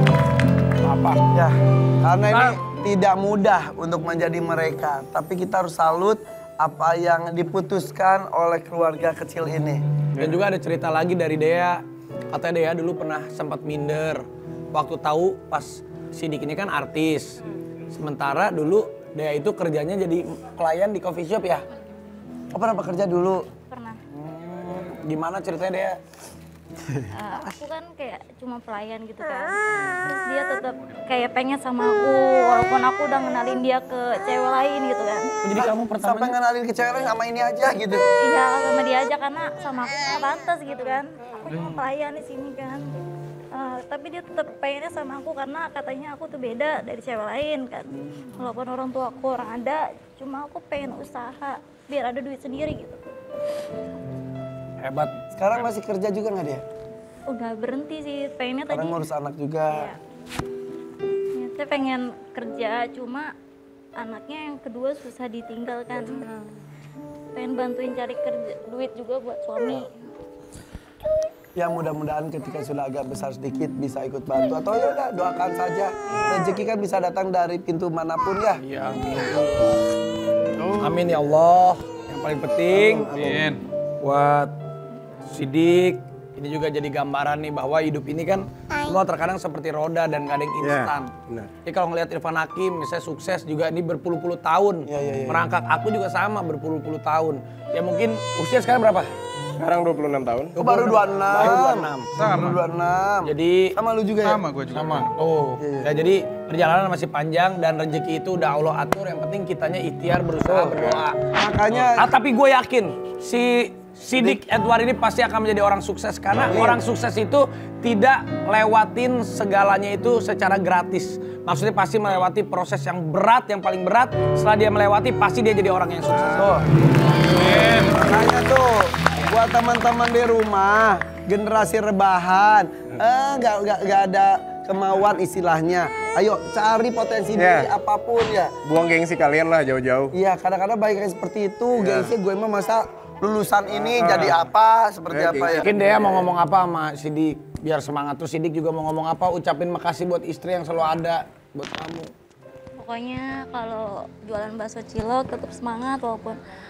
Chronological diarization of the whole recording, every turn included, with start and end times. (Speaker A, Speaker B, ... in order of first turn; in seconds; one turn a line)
Speaker A: 0.8-1.2
Speaker B: 1.3-9.8
Speaker A: 2.3-2.6
Speaker A: 10.1-21.6
Speaker B: 22.5-23.4
Speaker C: 23.7-23.9
Speaker A: 24.1-26.0
Speaker C: 27.1-35.3
Speaker A: 35.4-36.4
Speaker B: 35.5-38.0
Speaker C: 38.2-42.9
Speaker C: 43.5-53.0
Speaker A: 54.8-55.1
Speaker B: 55.3-56.6
Speaker C: 57.3-59.0
Speaker B: 58.7-59.9
Speaker C: 59.7-60.0
Speaker C: 61.3-63.3
Speaker C: 64.0-66.3
Speaker C: 67.3-69.9
Speaker B: 71.5-78.6
Speaker C: 76.1-76.6
Speaker A: 78.5-79.8
Speaker D: 80.6-81.1
Speaker A: 80.8-83.4
Speaker D: 82.7-83.5
Speaker E: 83.2-83.6
Speaker A: 84.0-84.5
Speaker A: 85.2-91.1
Speaker D: 90.6-91.5
Speaker A: 91.6-99.1
Speaker B: 94.9-95.4
Speaker D: 99.5-100.6
Speaker A: 100.5-102.1
Speaker B: 100.6-104.4
Speaker E: 102.1-102.6
Speaker A: 103.2-103.7
Speaker E: 104.2-105.1
Speaker A: 104.7-111.2
Speaker B: 105.6-105.9
Speaker B: 110.4-112.1
Speaker A: 112.0-126.6
Speaker B: 116.4-116.8
Speaker B: 126.3-126.6
Speaker B: 127.3-138.5
Speaker E: 127.4-128.0
Speaker D: 137.3-137.7
Speaker D: 138.6-140.1
Speaker B: 140.1-146.3
Speaker D: 141.7-142.1
Speaker D: 143.8-144.4
Speaker D: 145.1-145.7
Speaker A: 145.5-152.1
Speaker C: 152.8-156.4